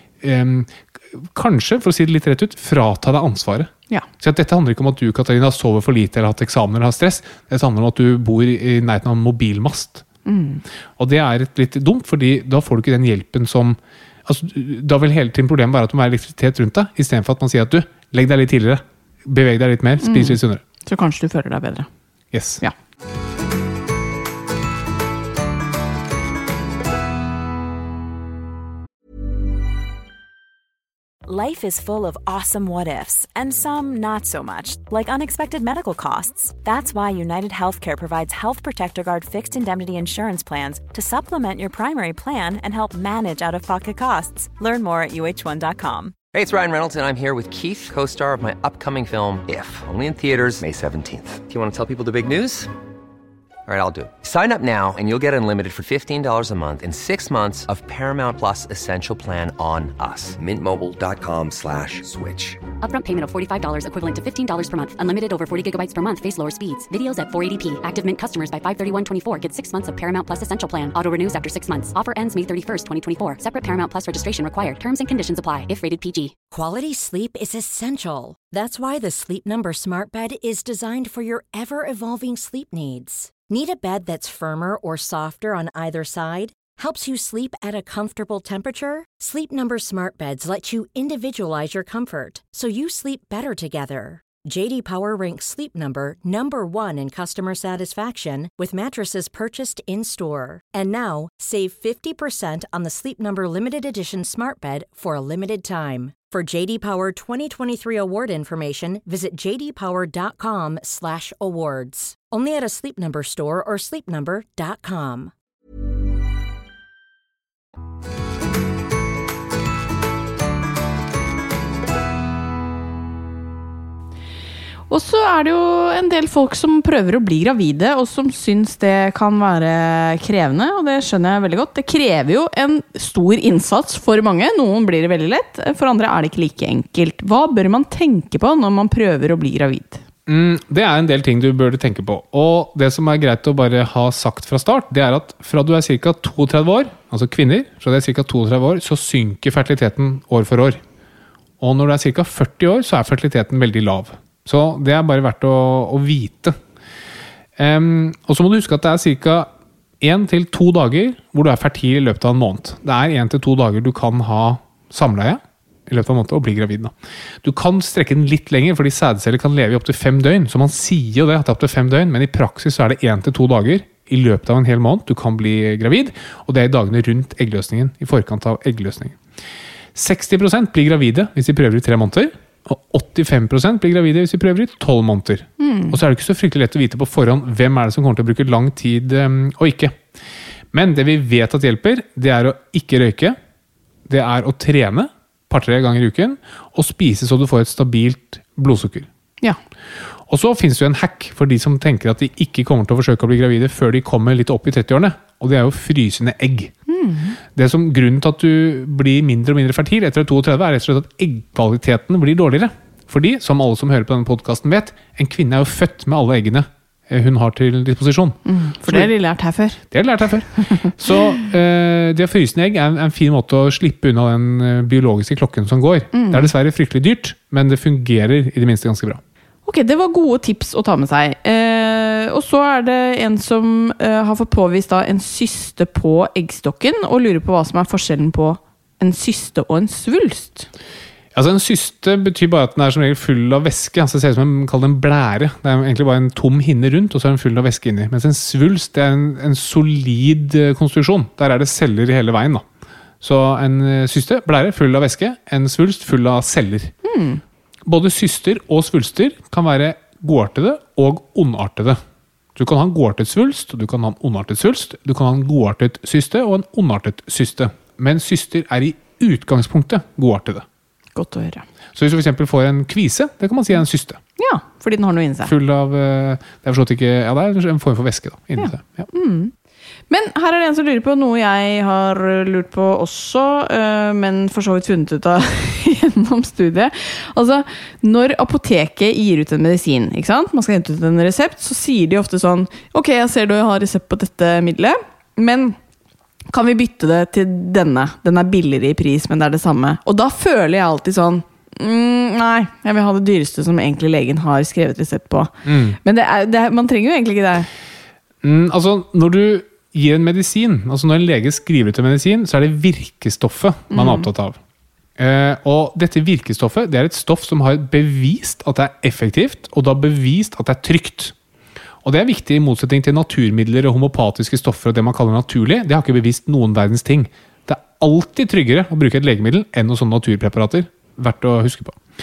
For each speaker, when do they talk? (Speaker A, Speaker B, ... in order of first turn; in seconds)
Speaker A: 0.2-10.0, 11.0-20.6, 22.3-22.6, 140.3-150.8, 151.6-156.6, 157.6-159.5, 160.0-179.2, 179.9-190.0, 190.7-193.4, 194.1-199.1, 200.3-206.7, 207.5-219.1, 219.9-229.2, 241.3-252.6, 253.2-256.9, 257.9-262.0, 262.6-270.6, 271.9-274.2, 275.4-279.1, 305.6-306.0, 308.4-314.6, 315.2-321.3, 322.0-332.0
Speaker B: 10.2-10.6, 20.0-21.9, 124.9-140.0, 185.6-186.0, 206.9-207.4, 218.4-219.8, 220.7-220.9, 226.1-226.5, 229.7-240.7, 257.0-257.4, 271.1-271.6, 274.4-275.5, 278.6-279.5, 280.1-295.8, 296.5-307.7, 313.9-314.3
Speaker C: 31.2-46.2
Speaker D: 46.3-52.7, 53.7-62.6
Speaker E: 62.8-76.3
Speaker F: 76.5-115.3